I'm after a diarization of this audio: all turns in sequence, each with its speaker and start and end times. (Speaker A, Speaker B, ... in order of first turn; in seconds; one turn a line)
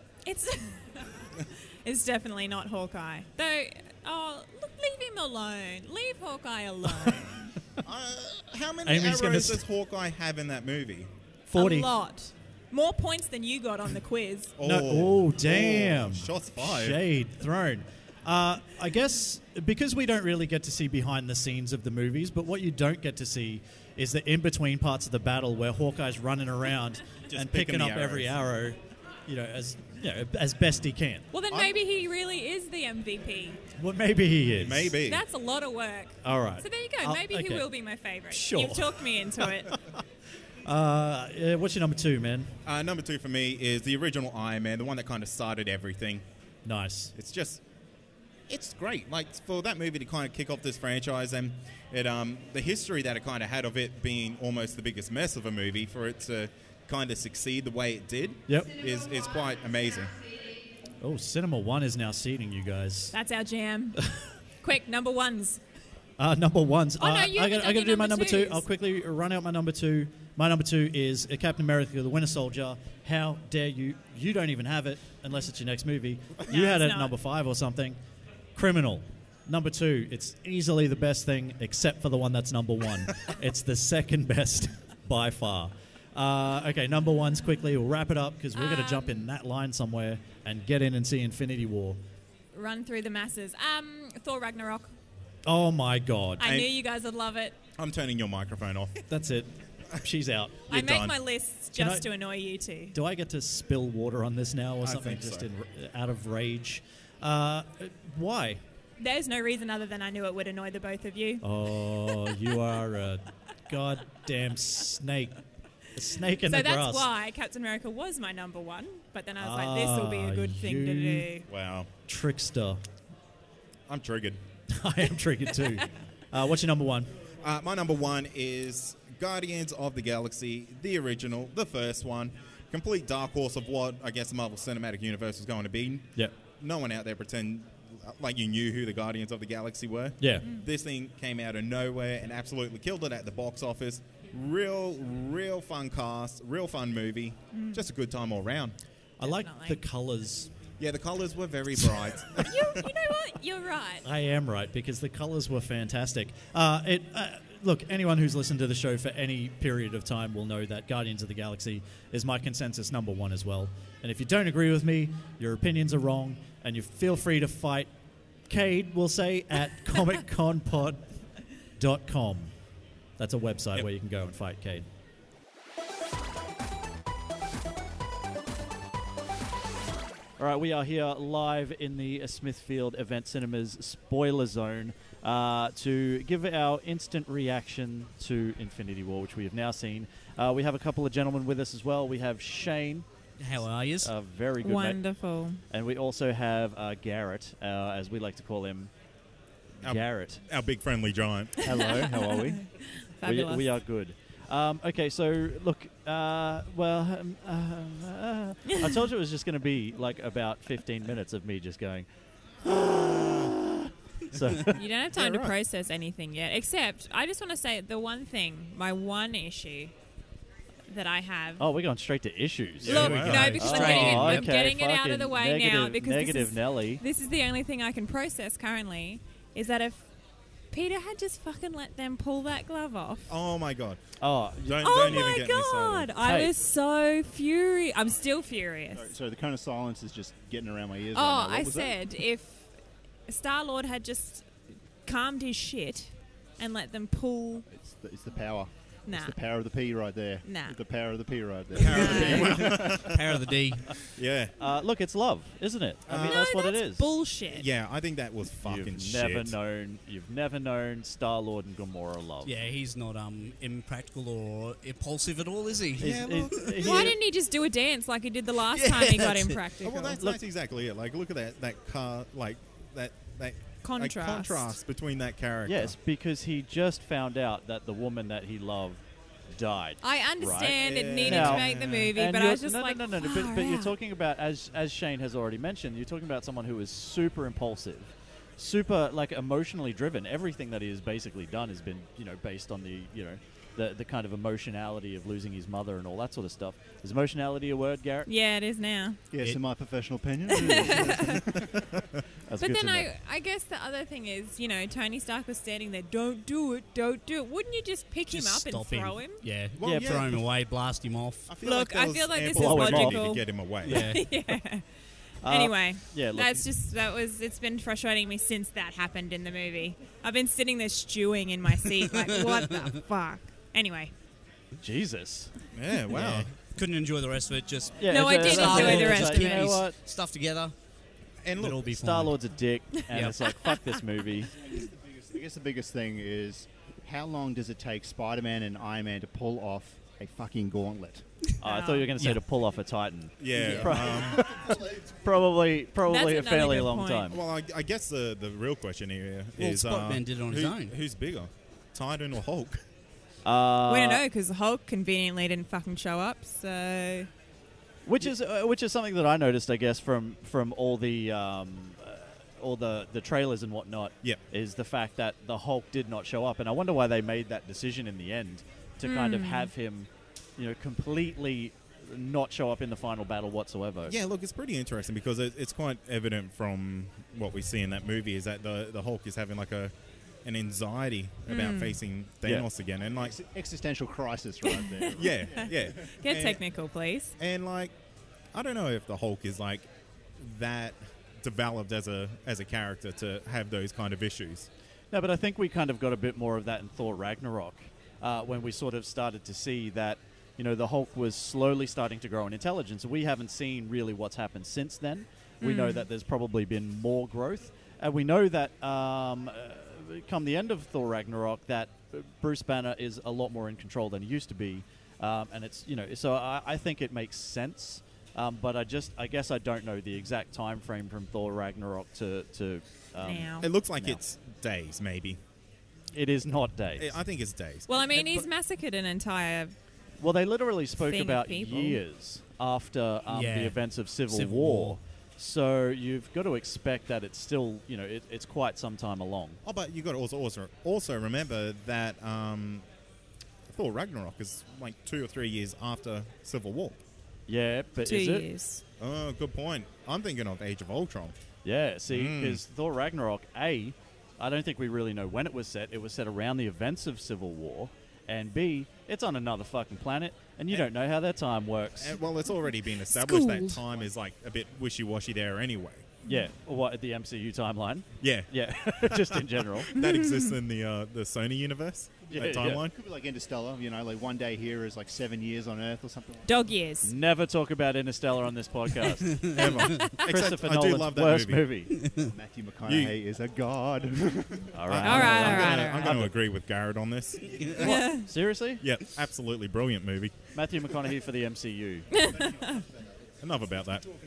Speaker A: 0.2-7.5
Speaker B: 7.8-11.1
Speaker C: 8.8-9.6
Speaker C: 11.5-11.9
Speaker A: 11.5-14.6
Speaker B: 14.6-17.0
Speaker C: 14.6-31.3
Speaker B: 27.3-28.3
Speaker A: 31.3-33.6
Speaker B: 31.5-31.8
Speaker C: 33.8-35.0
Speaker B: 34.6-35.2
Speaker A: 35.0-39.8
Speaker C: 36.2-37.6
Speaker C: 38.3-40.0
Speaker C: 40.6-42.6
Speaker B: 42.6-46.2
Speaker C: 46.6-47.1
Speaker B: 47.1-47.6
Speaker B: 48.5-60.2
Speaker C: 58.5-58.7
Speaker C: 61.0-63.1
Speaker A: 63.1-64.0
Speaker C: 64.0-64.3
Speaker A: 64.6-65.6
Speaker C: 66.2-78.0
Speaker A: 67.0-68.6
Speaker A: 76.5-77.1
Speaker C: 78.5-92.0
Speaker A: 88.5-89.2
Speaker A: 92.5-94.9
Speaker C: 95.5-96.4
Speaker A: 96.4-97.5
Speaker B: 96.4-96.7
Speaker B: 97.8-99.0
Speaker C: 99.1-100.6
Speaker A: 100.7-103.0
Speaker B: 100.7-101.2
Speaker C: 101.8-102.1
Speaker C: 102.9-108.6
Speaker B: 104.8-105.5
Speaker A: 109.0-112.5
Speaker C: 111.4-115.4
Speaker C: 115.9-117.1
Speaker A: 116.5-121.5
Speaker C: 119.4-121.3
Speaker B: 121.5-121.9
Speaker C: 122.1-122.8
Speaker B: 123.9-124.4
Speaker C: 124.7-127.1
Speaker B: 127.4-148.7
Speaker C: 140.2-140.4
Speaker A: 147.5-147.8
Speaker C: 149.2-150.5
Speaker A: 149.2-149.8
Speaker B: 150.8-152.9
Speaker A: 152.3-154.1
Speaker C: 154.0-167.9
Speaker C: 168.4-171.1
Speaker C: 171.8-172.6
Speaker C: 173.2-174.8
Speaker C: 180.4-193.1
Speaker D: 193.4-194.1
Speaker C: 194.0-195.0
Speaker A: 194.6-195.6
Speaker C: 195.7-198.9
Speaker C: 199.8-200.4
Speaker B: 199.8-201.7
Speaker E: 201.6-202.6
Speaker A: 201.7-203.7
Speaker C: 203.2-212.1
Speaker C: 212.6-214.8
Speaker A: 214.7-219.9
Speaker B: 215.1-215.5
Speaker A: 220.9-221.6
Speaker C: 221.6-227.0
Speaker B: 222.8-223.8
Speaker A: 222.8-230.1
Speaker D: 222.9-224.5
Speaker A: 230.7-233.3
Speaker B: 233.3-236.1
Speaker C: 234.2-235.2
Speaker A: 234.8-239.1
Speaker C: 236.2-236.5
Speaker E: 238.9-241.9
Speaker A: 241.1-247.7
Speaker E: 247.7-253.1
Speaker A: 249.1-249.4
Speaker A: 250.4-250.8
Speaker B: 251.7-253.3
Speaker A: 251.8-252.6
Speaker D: 252.2-254.0
Speaker B: 254.1-254.5
Speaker C: 254.6-257.0
Speaker B: 256.1-256.4
Speaker A: 256.1-257.7
Speaker B: 257.5-259.6
Speaker C: 258.6-262.5
Speaker D: 262.4-266.8
Speaker B: 266.0-267.1
Speaker C: 266.0-267.2
Speaker A: 266.8-270.2
Speaker D: 268.7-269.5
Speaker B: 269.8-275.9
Speaker A: 273.8-274.7
Speaker C: 275.6-298.3
Speaker A: 280.0-283.9
Speaker B: 280.8-282.1
Speaker A: 298.2-299.2
Speaker E: 299.3-301.8
Speaker A: 300.5-301.4
Speaker C: 302.5-303.1
Speaker A: 302.6-309.4
Speaker D: 308.3-311.5
Speaker B: 309.8-310.4
Speaker C: 309.8-310.2
Speaker B: 311.5-314.0
Speaker A: 311.6-324.1
Speaker C: 312.5-313.2
Speaker D: 313.8-314.2
Speaker C: 313.8-314.5
Speaker C: 315.4-316.6
Speaker D: 322.1-323.0
Speaker C: 324.8-326.5
Speaker B: 325.7-326.5
Speaker D: 326.6-330.7
Speaker C: 328.0-330.0
Speaker A: 328.1-329.6
Speaker B: 331.4-331.9
Speaker D: 331.6-332.4
Speaker C: 331.9-334.5
Speaker D: 333.1-333.4
Speaker E: 334.6-341.3
Speaker A: 341.6-342.1
Speaker C: 341.6-347.4
Speaker B: 343.4-344.6
Speaker D: 343.6-344.1
Speaker E: 344.0-344.8
Speaker A: 346.1-347.3
Speaker B: 347.3-352.8
Speaker D: 349.6-350.9
Speaker C: 353.4-354.2
Speaker A: 353.8-357.3
Speaker C: 358.1-374.1
Speaker A: 369.0-369.7
Speaker B: 374.0-383.3
Speaker A: 381.5-382.0
Speaker E: 383.2-385.9
Speaker A: 384.7-387.3
Speaker B: 385.1-386.6
Speaker B: 387.4-394.7
Speaker C: 395.1-424.2
Speaker A: 405.6-406.1
Speaker A: 423.2-423.7
Speaker B: 423.6-425.4
Speaker C: 426.1-427.1
Speaker B: 427.0-428.4
Speaker A: 427.9-429.8
Speaker C: 430.2-439.6
Speaker A: 431.1-432.0
Speaker D: 433.3-435.0
Speaker B: 439.6-442.9
Speaker B: 443.7-447.0
Speaker C: 447.5-448.5
Speaker A: 448.0-448.8
Speaker B: 449.0-451.4
Speaker C: 451.6-462.2
Speaker B: 452.1-452.6
Speaker B: 462.0-466.1
Speaker A: 463.1-463.8
Speaker C: 466.2-469.9
Speaker B: 468.2-472.9
Speaker A: 469.9-470.5
Speaker C: 472.3-472.8
Speaker E: 472.6-476.6
Speaker A: 476.4-477.1
Speaker C: 477.0-481.9
Speaker D: 479.3-479.7
Speaker B: 479.5-481.9
Speaker A: 479.6-480.1
Speaker D: 482.0-482.3
Speaker E: 482.3-484.7
Speaker B: 482.8-483.1
Speaker C: 484.7-486.3
Speaker B: 484.9-488.2
Speaker A: 485.0-486.1
Speaker A: 487.8-488.3
Speaker C: 487.8-488.8
Speaker B: 488.8-490.9
Speaker C: 490.5-492.1
Speaker A: 492.1-492.8
Speaker B: 493.4-494.1